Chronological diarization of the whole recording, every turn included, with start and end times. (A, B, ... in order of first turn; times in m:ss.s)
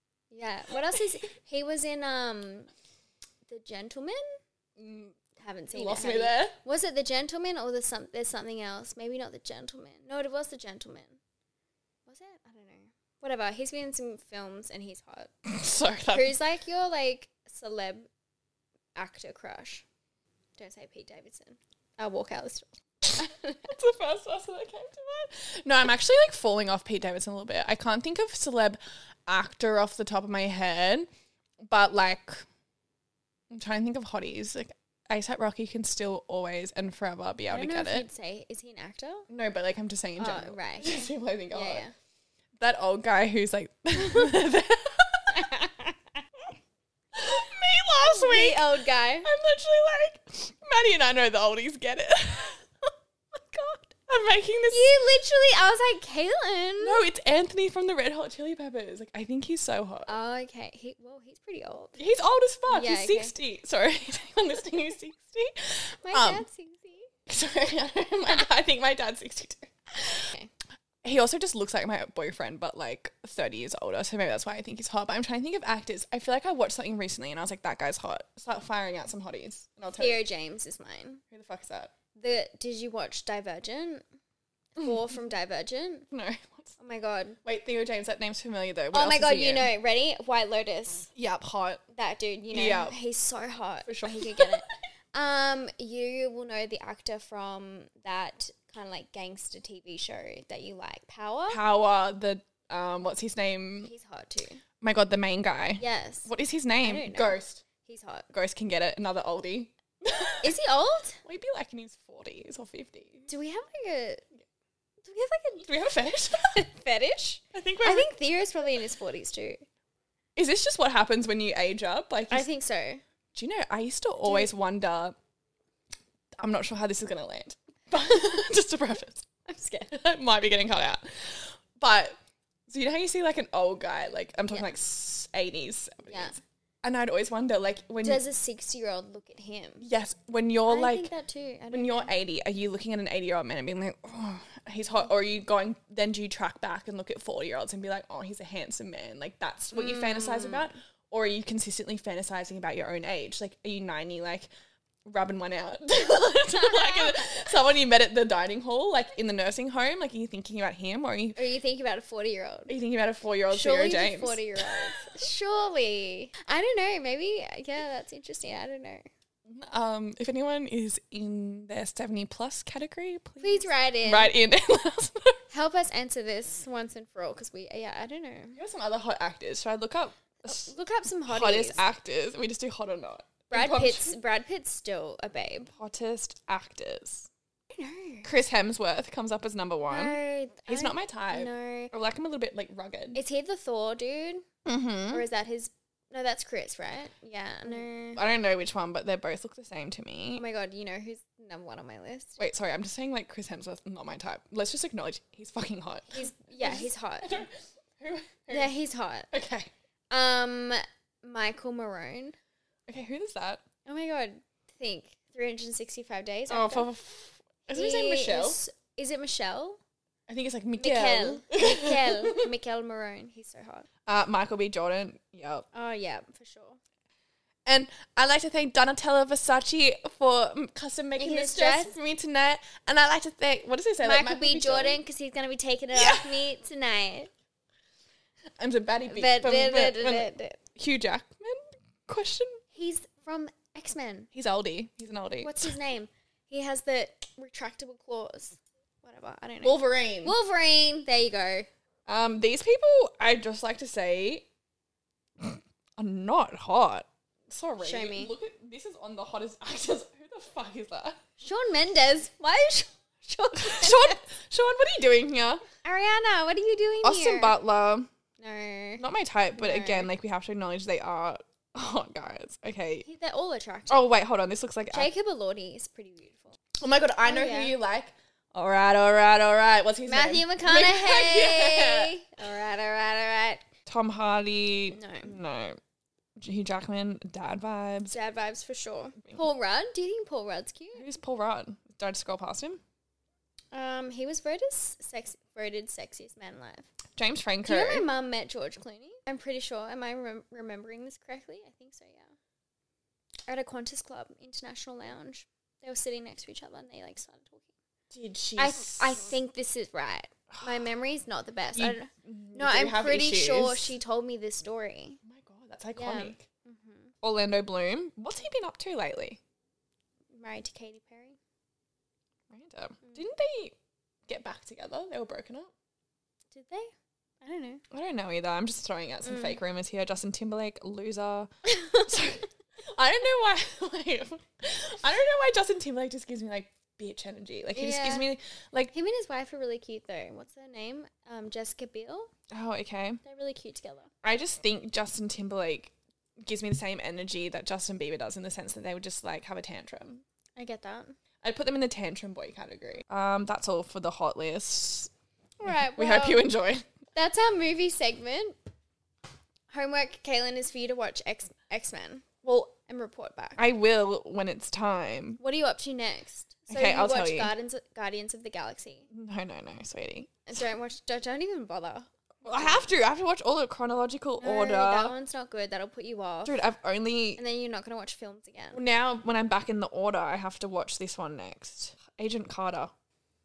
0:00.3-0:02.7 A
0:03.5-0:04.4 A
0:04.8-0:05.2 B
0:05.4-0:11.2 A
0:05.7-0:06.6 B
0:12.1-0:15.3 A
0:15.4-0:16.4 B
0:16.1-0:18.1 A
0:19.0-0:19.8 A
0:20.6-0:23.7 A
0:23.7-0:31.1 B
0:31.6-0:32.5 B
0:33.5-0:38.1 B
0:37.5-0:39.3 A
0:39.3-0:41.8 B
0:40.2-0:41.9 A
0:42.6-0:45.5 B
0:45.3-0:46.0 A
0:47.1-0:52.7 B
0:48.0-0:49.3 A
0:53.5-0:54.9 B
0:54.7-0:57.0 A
0:56.8-1:00.1 B
1:00.1-1:02.0 A
1:02.0-1:06.5 B
1:02.7-1:03.4 A
1:06.0-1:07.1 A
1:07.3-1:10.2 B
1:10.0-1:10.5 A
1:11.0-1:20.2 B
1:20.0-1:21.2 A
1:21.3-1:21.9 B
1:22.2-1:24.0 A
1:24.8-1:26.1 A
1:26.1-1:26.8 B
1:26.8-1:27.4 A
1:27.4-1:29.7 B
1:28.9-1:31.1 A
1:31.1-1:31.8 B
1:31.9-1:41.6 A
1:32.5-1:33.0 B
1:33.9-1:34.7 B
1:41.5-1:43.9 B
1:43.8-1:44.6 A
1:44.8-1:47.6 B
1:45.8-1:46.3 A
1:46.8-1:48.3 A
1:48.3-1:50.5 B
1:50.4-1:51.2 A
1:51.2-1:53.3 B
1:53.3-1:54.2 A
1:55.0-1:55.7 A
1:55.6-1:56.6 B
1:56.4-1:59.6 A
1:57.5-1:58.1 B
2:00.4-2:02.5 B
2:02.3-2:03.0 A
2:03.3-2:05.2 B
2:06.4-2:09.3 B
2:09.5-2:09.9 A
2:09.9-2:12.2 B
2:12.7-2:18.2 B
2:16.1-2:16.4 A
2:18.0-2:19.9 A
2:19.8-2:21.1 B
2:20.7-2:22.1 A
2:21.7-2:34.5 B
2:29.7-2:30.7 A
2:35.0-2:41.4 B
2:36.6-2:37.0 A
2:41.4-2:42.7 A
2:42.7-2:45.0 B
2:43.5-2:49.1 A
2:49.5-2:55.4 B
2:53.4-2:54.3 A
2:55.5-2:58.6 A
2:58.6-3:00.7 B
3:00.5-3:01.8 A
3:01.3-3:04.1 B
3:03.5-3:05.7 A
3:05.8-3:07.3 B
3:07.7-3:08.3 A
3:08.2-3:13.2 B
3:09.9-3:11.9 A
3:13.1-3:14.4 A
3:14.7-3:15.2 B
3:15.1-3:18.2 A
3:17.7-3:20.4 B
3:20.4-3:22.4 A
3:22.4-3:28.7 B
3:26.1-3:27.4 A
3:28.5-3:29.3 A
3:29.3-3:29.7 B
3:30.1-3:32.4 A
3:32.9-3:33.6 B
3:33.8-3:36.9 A
3:36.5-3:38.6 B
3:37.7-3:39.8 A
3:40.3-3:42.5 B
3:40.8-3:43.9 A
3:44.1-3:45.7 B
3:45.7-3:46.8 A
3:47.7-3:55.0 B
3:51.2-3:52.0 A
3:54.0-3:57.3 A
3:55.9-3:56.3 B
3:58.6-4:02.6 B
3:59.1-4:00.6 A
4:02.7-4:04.3 A
4:04.3-4:05.8 B
4:05.4-4:11.7 A
4:09.6-4:10.4 B
4:12.1-4:14.5 B
4:15.4-4:21.2 B
4:17.8-4:18.3 A
4:21.4-4:24.2 A
4:23.5-4:25.6 B
4:25.8-4:27.6 A
4:27.0-4:28.1 B
4:28.4-4:29.0 A
4:29.0-4:33.1 B
4:29.6-4:30.1 A
4:33.0-4:34.1 A
4:33.9-4:35.1 B
4:34.9-4:36.6 A
4:36.8-4:42.1 B
4:37.2-4:37.7 A
4:40.1-4:43.7 A
4:43.9-4:45.8 B
4:44.9-4:45.4 A
4:46.4-4:48.1 B
4:48.1-4:51.1 A
4:51.0-4:52.8 B
4:53.7-4:56.9 A
4:57.2-4:58.1 B
4:57.6-5:02.4 A
5:03.5-5:07.7 A
5:08.1-5:09.3 B
5:08.6-5:15.2 A
5:10.5-5:10.8 B
5:11.7-5:14.0 B
5:15.2-5:16.4 B
5:16.0-5:17.1 A
5:17.2-5:19.4 B
5:20.3-5:21.4 A
5:22.5-5:23.8 B
5:24.3-5:25.7 B
5:26.5-5:27.8 A
5:27.9-5:38.9 B
5:29.2-5:29.6 A
5:31.7-5:32.1 A
5:37.7-5:38.3 A
5:38.9-5:42.3 A
5:42.5-5:43.2 B
5:43.2-5:44.1 A
5:44.2-5:50.2 B
5:50.6-5:51.2 A
5:51.4-5:55.1 B
5:55.6-5:56.4 A
5:55.6-5:56.9 B
5:57.1-5:58.6 A
5:59.7-6:02.3 A
6:02.4-6:02.7 B
6:02.8-6:03.6 A
6:03.6-6:05.4 B
6:05.4-6:09.1 A
6:06.7-6:07.5 B
6:09.1-6:10.5 B
6:10.5-6:12.9 A
6:12.4-6:15.1 B
6:14.4-6:16.6 A
6:16.4-6:17.4 B
6:17.4-6:18.8 A
6:18.7-6:22.9 B